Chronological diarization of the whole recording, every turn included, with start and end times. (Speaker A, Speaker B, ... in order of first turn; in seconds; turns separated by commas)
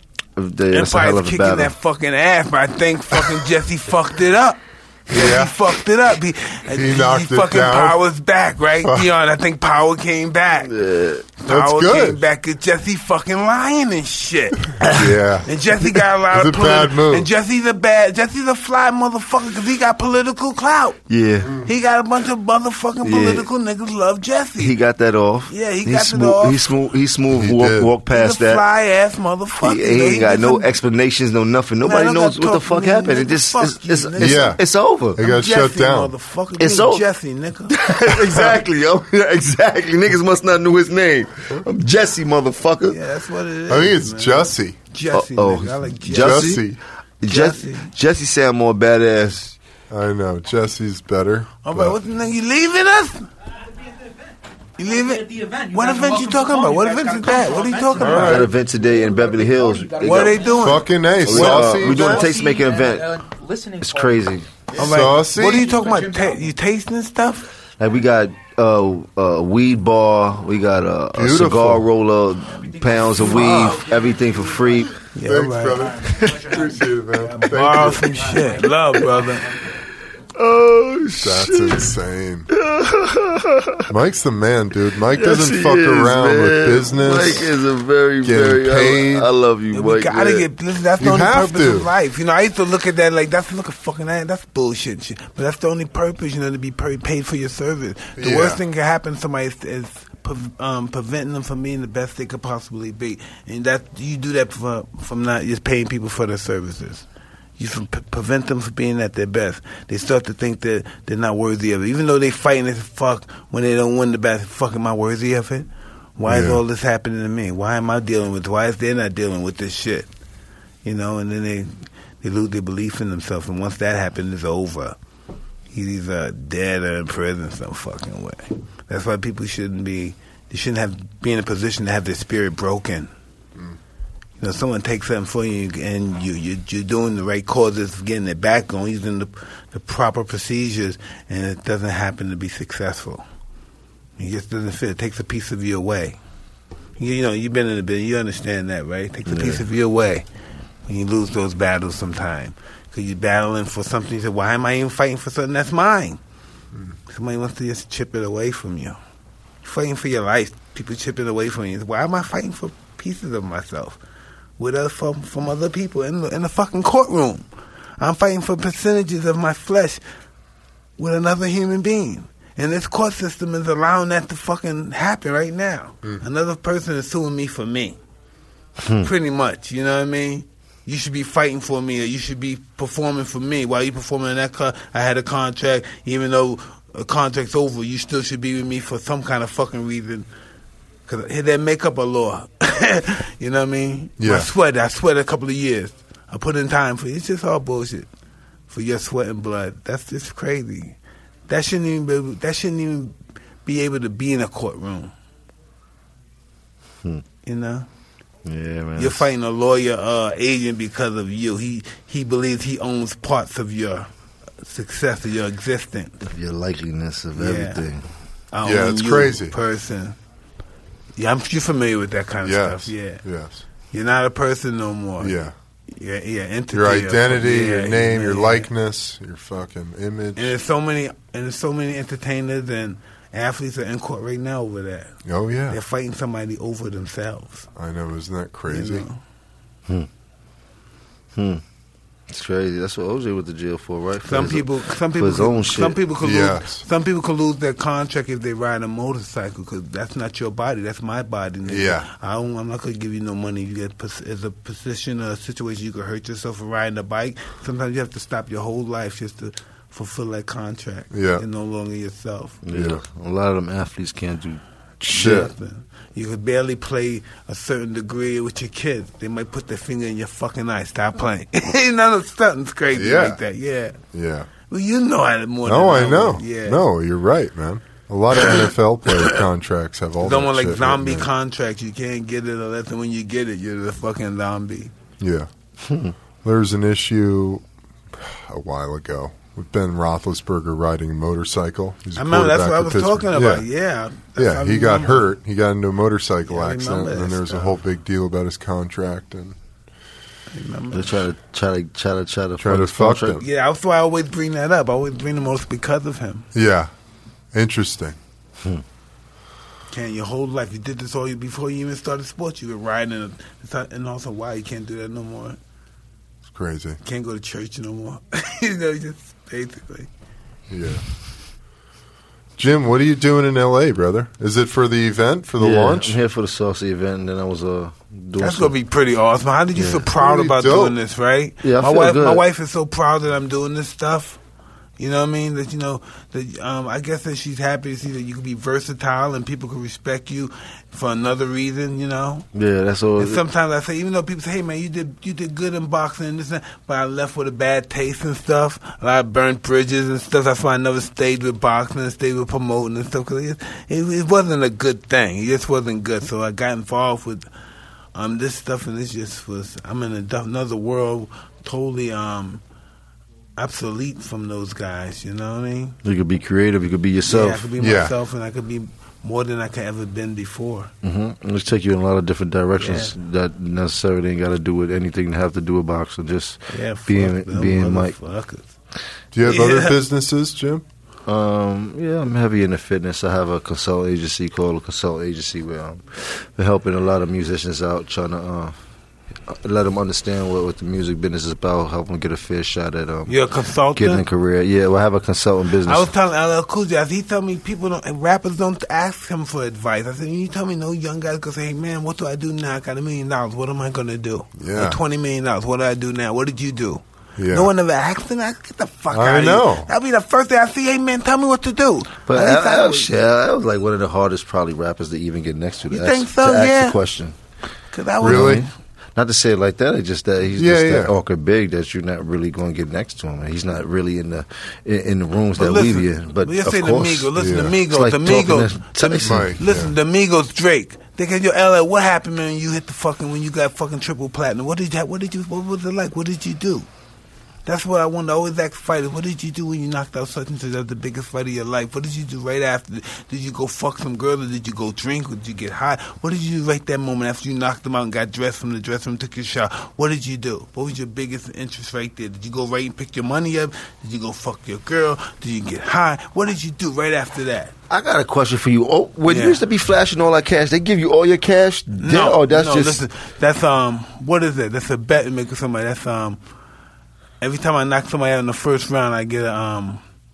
Speaker A: 0.4-1.7, Speaker B: 0.7-10.7, Speaker C: 5.1-5.5, Speaker C: 6.7-8.0, Speaker C: 8.8-9.1, Speaker A: 10.6-11.3, Speaker B: 11.4-21.0, Speaker C: 11.5-12.2, Speaker C: 14.9-17.3, Speaker A: 21.1-21.6, Speaker B: 21.6-24.8, Speaker A: 23.0-23.5, Speaker A: 24.6-28.6, Speaker B: 25.5-26.6, Speaker C: 27.3-27.9, Speaker B: 28.1-30.7, Speaker A: 29.6-35.2, Speaker B: 31.8-34.6, Speaker C: 34.2-34.6, Speaker C: 35.1-36.1, Speaker B: 35.2-37.8, Speaker A: 36.6-37.0, Speaker A: 37.7-43.0, Speaker B: 42.9-46.6, Speaker C: 43.7-44.8, Speaker A: 45.1-46.6, Speaker C: 46.1-46.8, Speaker A: 47.2-49.6, Speaker B: 47.3-47.9, Speaker C: 49.9-52.0, Speaker B: 51.6-53.3, Speaker B: 54.8-58.5, Speaker D: 55.3-58.1, Speaker A: 58.0-60.7, Speaker C: 58.0-58.5, Speaker D: 58.8-60.5, Speaker B: 60.0-61.6, Speaker C: 60.6-62.3, Speaker A: 61.2-63.2, Speaker D: 61.8-64.1, Speaker A: 63.8-64.5, Speaker B: 64.8-67.5, Speaker C: 64.8-65.7, Speaker A: 67.8-74.9, Speaker C: 71.2-71.8, Speaker B: 73.1-73.8, Speaker B: 75.1-75.9, Speaker C: 75.2-78.2, Speaker A: 76.1-76.4, Speaker B: 77.4-79.6, Speaker A: 80.3-82.0, Speaker C: 81.2-82.5, Speaker A: 82.5-83.9, Speaker C: 83.9-87.5, Speaker A: 85.1-90.5, Speaker C: 88.2-89.3, Speaker B: 89.7-107.1, Speaker C: 91.0-91.9, Speaker C: 98.2-98.6, Speaker B: 107.6-120.1, Speaker C: 116.2-116.6, Speaker B: 120.8-125.0, Speaker B: 125.7-133.1, Speaker B: 134.4-143.2, Speaker B: 144.2-146.2, Speaker B: 147.0-150.3, Speaker A: 149.3-149.7, Speaker B: 150.9-156.2, Speaker B: 157.1-159.0, Speaker B: 159.6-164.0, Speaker B: 164.6-167.4, Speaker B: 168.0-170.0, Speaker B: 171.0-178.0, Speaker A: 178.8-179.1, Speaker B: 179.0-190.3, Speaker B: 191.1-198.1, Speaker C: 194.2-194.5, Speaker B: 198.7-201.0, Speaker B: 201.5-205.1, Speaker B: 207.4-207.9, Speaker A: 208.4-209.3, Speaker B: 209.0-214.1, Speaker B: 214.6-216.2, Speaker A: 216.2-218.1, Speaker B: 217.4-217.8, Speaker B: 218.5-220.2, Speaker C: 218.6-219.5, Speaker B: 221.2-223.2, Speaker C: 222.4-223.6, Speaker B: 223.9-225.4, Speaker C: 225.2-225.5, Speaker B: 225.9-228.7, Speaker C: 226.7-230.6, Speaker B: 230.4-235.2, Speaker C: 235.3-235.8, Speaker B: 235.7-237.7, Speaker C: 237.8-239.1, Speaker B: 238.7-239.2, Speaker A: 241.3-241.6, Speaker A: 242.3-246.0, Speaker B: 244.2-262.6, Speaker C: 246.2-246.8, Speaker C: 251.7-252.1, Speaker C: 261.1-261.4, Speaker A: 262.6-264.6, Speaker C: 262.7-263.0, Speaker C: 265.0-265.5, Speaker B: 265.1-274.0, Speaker C: 272.9-273.4, Speaker C: 274.1-274.5, Speaker B: 274.7-276.8, Speaker C: 275.7-281.3, Speaker B: 278.4-279.4, Speaker B: 280.2-284.9, Speaker C: 285.2-285.5, Speaker A: 285.8-286.1, Speaker C: 286.4-293.6, Speaker B: 292.2-295.2, Speaker C: 294.4-299.6, Speaker B: 296.5-297.7, Speaker B: 300.5-301.3, Speaker A: 300.9-303.4, Speaker C: 302.6-303.4, Speaker B: 303.4-306.5, Speaker C: 306.5-306.9, Speaker C: 307.5-308.2, Speaker B: 309.9-315.6, Speaker C: 316.5-317.0, Speaker B: 317.0-320.1, Speaker C: 320.7-321.0, Speaker C: 322.6-326.2, Speaker A: 325.6-328.7, Speaker B: 328.4-334.4, Speaker A: 329.8-330.1, Speaker C: 330.2-331.0, Speaker A: 331.6-332.4, Speaker B: 335.0-342.5, Speaker A: 342.5-343.4, Speaker B: 343.2-357.5, Speaker B: 358.1-362.6, Speaker B: 363.6-366.0, Speaker A: 366.0-367.7, Speaker B: 367.3-370.9, Speaker C: 367.8-368.1, Speaker A: 371.0-378.1, Speaker B: 372.8-373.1, Speaker B: 376.7-378.7, Speaker C: 379.3-380.9, Speaker B: 379.5-380.0, Speaker A: 381.3-388.7, Speaker A: 389.5-393.4, Speaker B: 393.3-394.2, Speaker A: 393.9-396.1, Speaker B: 395.8-413.1, Speaker C: 404.6-405.0, Speaker C: 407.4-407.7, Speaker C: 409.1-409.9, Speaker A: 412.3-417.4, Speaker B: 415.9-417.0, Speaker B: 417.9-418.7, Speaker C: 418.2-418.7, Speaker A: 418.2-427.3, Speaker C: 420.6-421.1, Speaker B: 425.6-436.9, Speaker C: 427.4-427.8, Speaker A: 427.9-429.5, Speaker C: 429.2-429.9, Speaker B: 437.6-457.7, Speaker A: 457.9-463.0, Speaker B: 459.3-459.6, Speaker B: 462.0-466.4, Speaker B: 467.4-470.0